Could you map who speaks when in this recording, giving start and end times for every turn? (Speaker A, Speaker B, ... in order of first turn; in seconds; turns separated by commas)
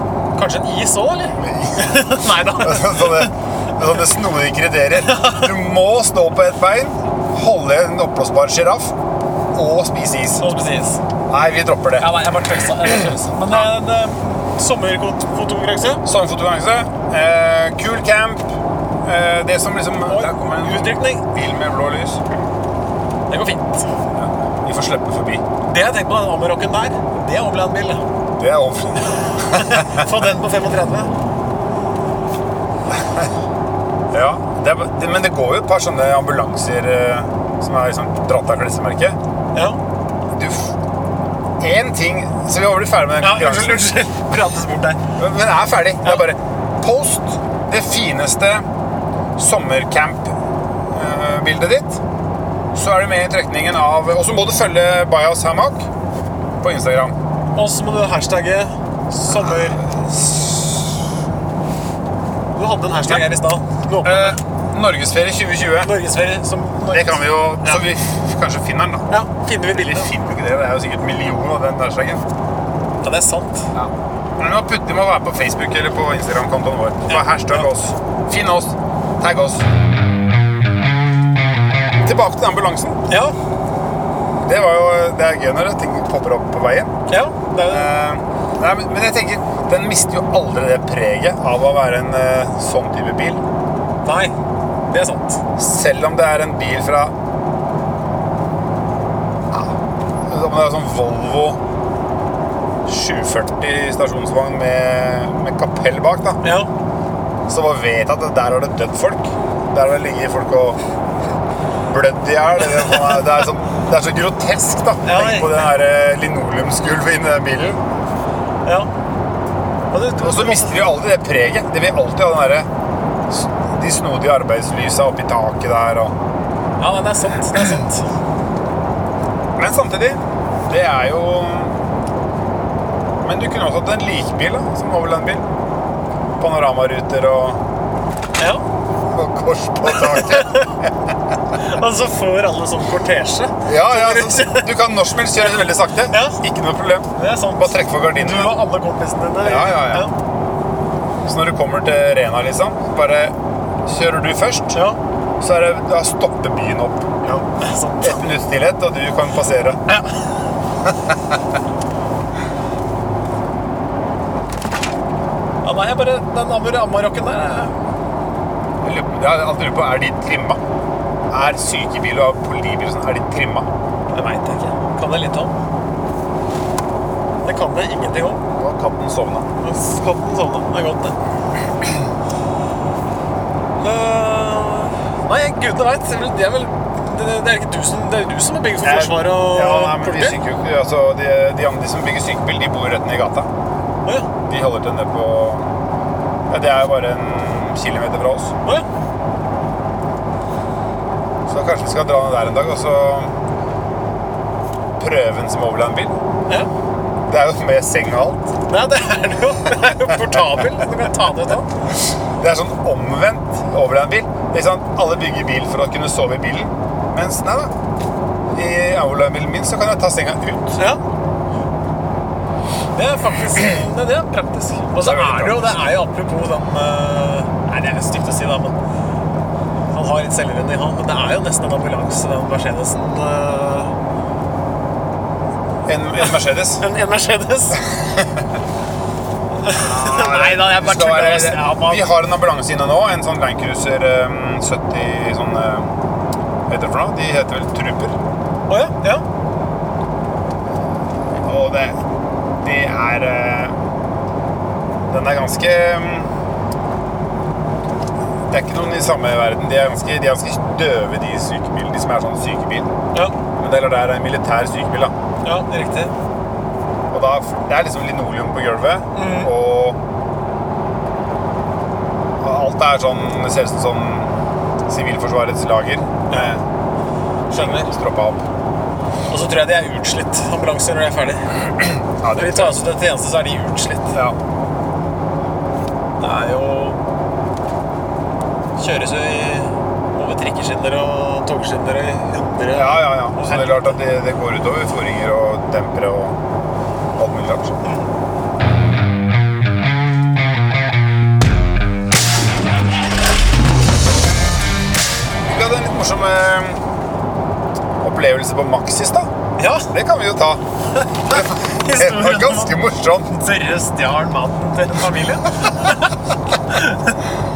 Speaker A: 0.3-3.3, Speaker B: 1.4-1.9, Speaker B: 2.5-8.9, Speaker A: 4.9-5.5, Speaker B: 9.5-10.4, Speaker A: 10.4-11.0, Speaker B: 11.3-12.1, Speaker A: 12.0-16.0, Speaker B: 12.8-13.7, Speaker B: 16.0-18.4, Speaker B: 19.0-22.2, Speaker A: 20.1-21.2, Speaker A: 23.3-23.9, Speaker B: 24.1-25.4, Speaker A: 25.7-28.0, Speaker B: 28.4-30.1, Speaker A: 29.3-31.1, Speaker B: 32.9-33.3, Speaker B: 34.1-39.2, Speaker B: 40.3-40.7, Speaker B: 41.6-43.9, Speaker A: 43.2-45.0, Speaker B: 45.2-48.6, Speaker B: 49.4-50.3, Speaker B: 50.9-52.0, Speaker B: 52.7-55.9, Speaker B: 56.6-57.1, Speaker A: 57.5-59.8, Speaker B: 59.3-61.0, Speaker A: 62.5-64.4, Speaker B: 64.0-65.9, Speaker A: 65.8-67.8, Speaker B: 66.9-69.1, Speaker A: 69.1-70.1, Speaker B: 69.7-72.2, Speaker A: 73.0-73.7, Speaker B: 73.7-79.7, Speaker A: 77.1-77.7, Speaker B: 82.0-83.0, Speaker A: 83.1-83.3, Speaker B: 84.4-86.9, Speaker A: 87.1-87.9, Speaker B: 87.7-93.4, Speaker A: 94.0-94.3, Speaker A: 94.9-95.4, Speaker B: 95.5-97.1, Speaker B: 100.3-101.6, Speaker B: 102.8-106.4, Speaker A: 106.4-106.7, Speaker B: 107.5-110.8, Speaker B: 111.9-117.8, Speaker A: 115.0-115.6, Speaker A: 119.9-120.9, Speaker B: 120.2-122.7, Speaker B: 123.3-126.1, Speaker A: 126.8-128.1, Speaker B: 129.6-131.7, Speaker B: 133.2-135.4, Speaker B: 136.4-137.6, Speaker B: 139.1-140.9, Speaker A: 139.8-140.7, Speaker A: 141.6-144.7, Speaker B: 143.7-148.6, Speaker A: 146.1-146.4, Speaker A: 147.1-150.1, Speaker B: 149.4-150.1, Speaker B: 151.2-153.3, Speaker B: 153.8-154.8, Speaker B: 155.4-157.1, Speaker A: 157.2-158.3, Speaker B: 158.0-159.8, Speaker A: 159.9-160.2, Speaker B: 160.8-161.1, Speaker A: 165.6-167.7, Speaker B: 168.8-170.6, Speaker B: 171.3-173.7, Speaker A: 174.1-175.5, Speaker A: 177.4-178.4, Speaker B: 178.5-179.5, Speaker A: 179.6-181.1, Speaker A: 183.8-190.3, Speaker B: 188.8-193.5, Speaker B: 194.4-195.7, Speaker B: 196.5-198.5, Speaker B: 201.5-203.3, Speaker B: 205.0-206.1, Speaker B: 207.3-208.5, Speaker A: 208.7-211.7, Speaker B: 210.1-210.6, Speaker B: 212.4-217.7, Speaker B: 218.5-220.8, Speaker A: 220.8-221.0, Speaker A: 222.9-228.8, Speaker B: 225.0-225.7, Speaker A: 229.9-233.9, Speaker B: 235.8-236.8, Speaker A: 236.2-237.8, Speaker B: 237.8-238.5, Speaker A: 239.6-242.1, Speaker B: 239.8-245.9, Speaker B: 246.7-248.1, Speaker A: 248.7-249.2, Speaker B: 251.4-252.0, Speaker B: 252.6-253.8, Speaker B: 255.1-256.3, Speaker B: 258.5-262.9, Speaker B: 263.6-265.1, Speaker A: 265.4-266.1, Speaker B: 267.1-270.0, Speaker A: 269.1-269.5, Speaker B: 272.4-274.3, Speaker B: 274.9-276.6, Speaker A: 277.5-277.9, Speaker B: 277.5-278.4, Speaker A: 279.3-281.6, Speaker B: 282.2-282.8, Speaker A: 282.3-284.1, Speaker A: 286.2-287.0, Speaker A: 288.8-293.9, Speaker B: 292.7-296.4, Speaker B: 297.1-297.7, Speaker A: 297.8-298.1, Speaker B: 305.4-306.8, Speaker B: 308.0-309.3, Speaker A: 309.6-309.9, Speaker B: 309.9-310.6, Speaker A: 310.9-316.1, Speaker B: 311.3-313.3, Speaker A: 316.7-317.2